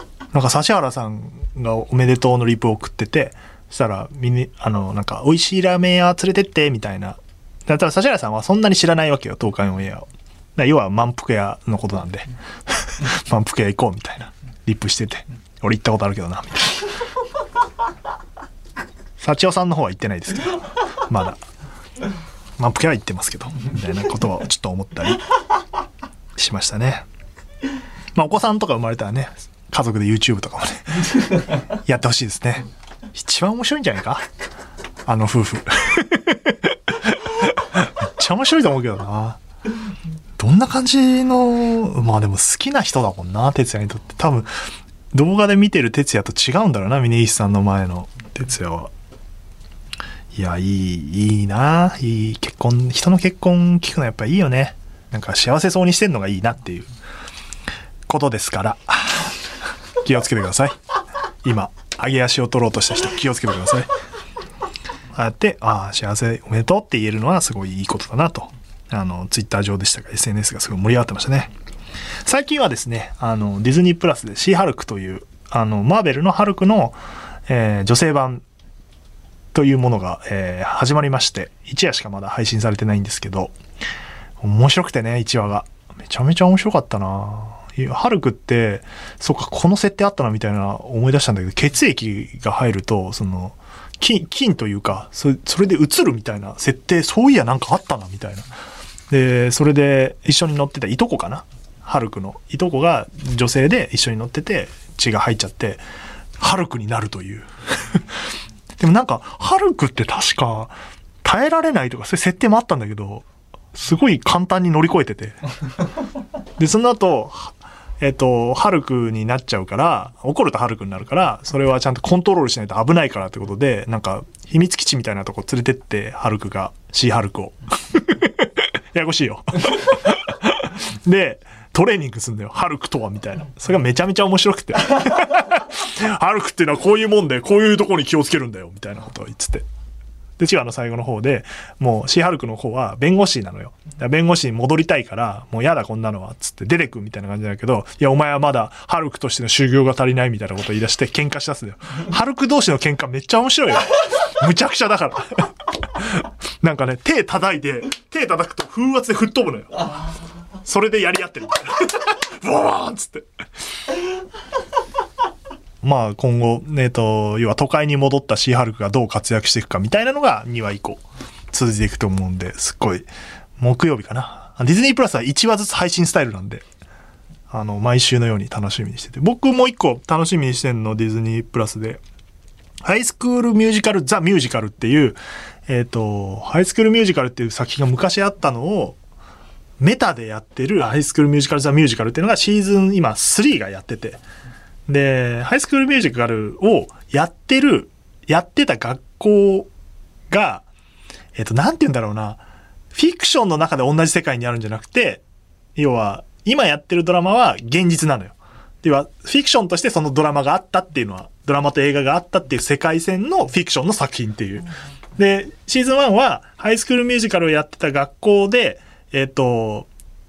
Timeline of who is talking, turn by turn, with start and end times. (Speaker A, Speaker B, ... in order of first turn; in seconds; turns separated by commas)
Speaker A: 0.3-16.8, Speaker A: 19.2-21.4, Speaker A: 22.6-25.3, Speaker A: 26.4-27.1, Speaker A: 28.1-34.2, Speaker A: 35.0-39.4, Speaker A: 40.4-44.5, Speaker A: 45.1-48.9, Speaker A: 50.3-56.9, Speaker A: 58.1-59.4, Speaker A: 60.0-60.8, Speaker A: 61.4-63.9, Speaker A: 65.1-71.5, Speaker A: 72.2-78.4, Speaker A: 79.5-83.5, Speaker A: 84.4-98.5, Speaker A: 99.1-105.8, Speaker A: 106.4-108.2, Speaker A: 108.8-115.4, Speaker A: 116.6-139.7, Speaker A: 140.4-159.9, Speaker A: 160.6-163.3, Speaker A: 165.8-173.1, Speaker A: 173.6-176.6, Speaker A: 177.5-182.0, Speaker A: 182.8-189.0, Speaker A: 189.8-194.2, Speaker A: 194.9-199.7, Speaker A: 200.3-200.7, Speaker A: 201.3-202.4, Speaker A: 202.9-205.2, Speaker A: 205.8-219.9